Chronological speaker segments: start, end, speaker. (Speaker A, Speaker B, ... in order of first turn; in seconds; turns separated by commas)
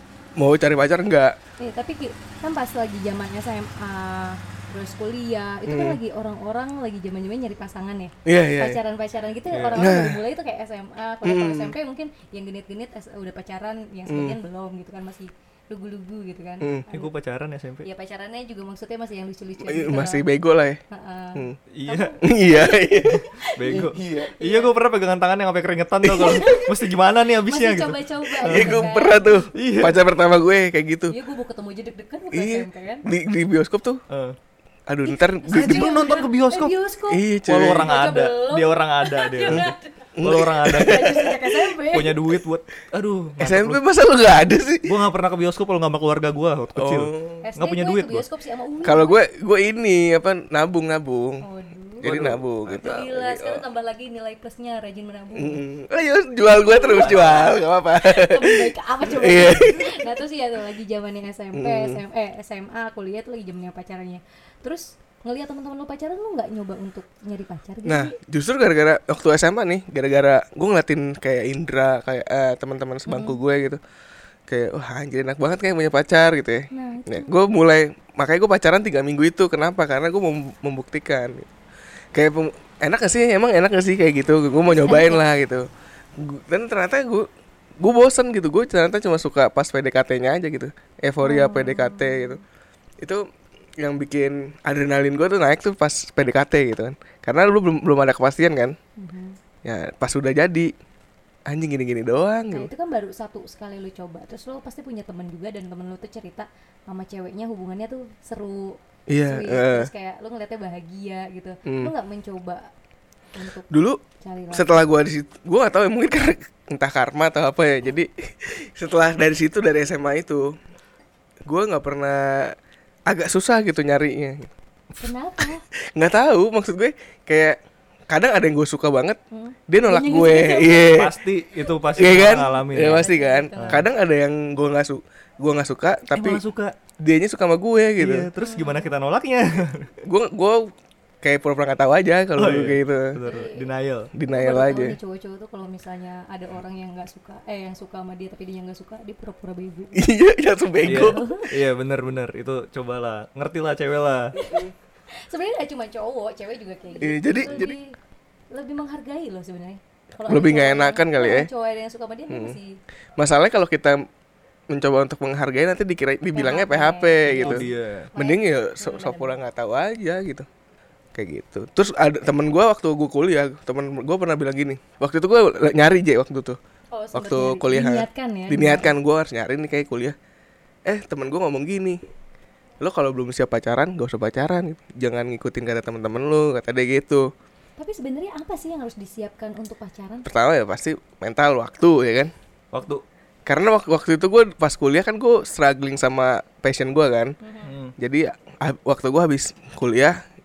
Speaker A: 0.4-1.4, Speaker B: 1.6-17.1, Speaker A: 5.7-6.0, Speaker A: 8.2-8.8, Speaker A: 9.7-10.2, Speaker A: 11.2-11.7, Speaker A: 14.1-14.4, Speaker A: 16.6-16.9, Speaker C: 16.9-17.9, Speaker B: 17.8-20.2, Speaker A: 19.6-20.8, Speaker B: 20.9-24.7, Speaker C: 21.7-22.2, Speaker A: 22.2-24.3, Speaker C: 23.1-28.9, Speaker A: 26.0-26.5, Speaker B: 26.1-26.7, Speaker B: 27.5-29.4, Speaker A: 28.4-31.1, Speaker C: 29.5-30.0, Speaker B: 31.1-33.0, Speaker A: 32.3-34.0, Speaker C: 34.1-34.4, Speaker A: 34.9-35.9, Speaker B: 35.1-37.2, Speaker C: 35.5-36.7, Speaker A: 37.1-37.9, Speaker C: 37.5-41.1, Speaker B: 37.8-40.1, Speaker A: 39.5-41.5, Speaker B: 40.6-42.2, Speaker C: 41.9-43.8, Speaker A: 43.4-44.9, Speaker C: 44.8-48.2, Speaker A: 46.8-47.4, Speaker B: 47.4-49.2, Speaker A: 48.8-51.4, Speaker B: 51.4-52.1, Speaker A: 52.0-53.6, Speaker C: 52.0-52.4, Speaker B: 52.7-55.6, Speaker A: 55.4-60.1, Speaker B: 56.5-68.1, Speaker C: 57.0-57.5, Speaker A: 61.5-62.0, Speaker A: 67.8-73.8, Speaker B: 73.1-73.4, Speaker A: 74.5-81.5, Speaker B: 76.7-77.3, Speaker A: 82.1-87.3, Speaker B: 84.7-85.2, Speaker A: 87.8-92.4, Speaker B: 91.2-92.4, Speaker A: 93.0-93.2, Speaker A: 93.8-98.8, Speaker B: 99.0-99.4, Speaker A: 99.6-100.7, Speaker A: 101.5-102.7, Speaker B: 102.5-112.7, Speaker A: 109.1-109.9, Speaker A: 111.6-111.9, Speaker B: 113.3-113.7, Speaker A: 113.7-120.6, Speaker B: 114.2-114.8, Speaker A: 121.5-122.5, Speaker A: 123.1-124.5, Speaker B: 125.0-125.6, Speaker A: 125.9-127.6, Speaker A: 128.1-131.2, Speaker B: 129.3-131.0, Speaker C: 130.9-133.1, Speaker B: 131.7-133.8, Speaker A: 131.9-136.4, Speaker C: 133.6-133.8, Speaker C: 136.1-136.8, Speaker A: 137.0-138.3, Speaker C: 138.0-139.9, Speaker B: 138.4-138.9, Speaker A: 140.0-143.2, Speaker C: 142.3-144.1, Speaker B: 143.2-143.7, Speaker A: 144.1-145.0, Speaker B: 144.3-150.0, Speaker A: 149.9-151.2, Speaker B: 150.8-151.5, Speaker C: 150.8-154.3, Speaker B: 154.3-157.9, Speaker A: 157.0-157.7, Speaker B: 158.5-162.8, Speaker A: 160.3-161.5, Speaker A: 162.3-162.6, Speaker A: 163.2-164.1, Speaker A: 164.7-167.6, Speaker B: 166.3-169.3, Speaker C: 167.4-168.1, Speaker A: 168.1-170.5, Speaker A: 171.1-176.6, Speaker B: 176.9-178.9, Speaker A: 177.1-180.2, Speaker A: 180.8-182.0, Speaker A: 182.8-187.3, Speaker B: 187.8-190.3, Speaker A: 190.2-192.3, Speaker C: 192.7-193.0, Speaker A: 193.4-197.3, Speaker B: 197.4-197.7, Speaker C: 197.6-197.9, Speaker A: 198.0-200.2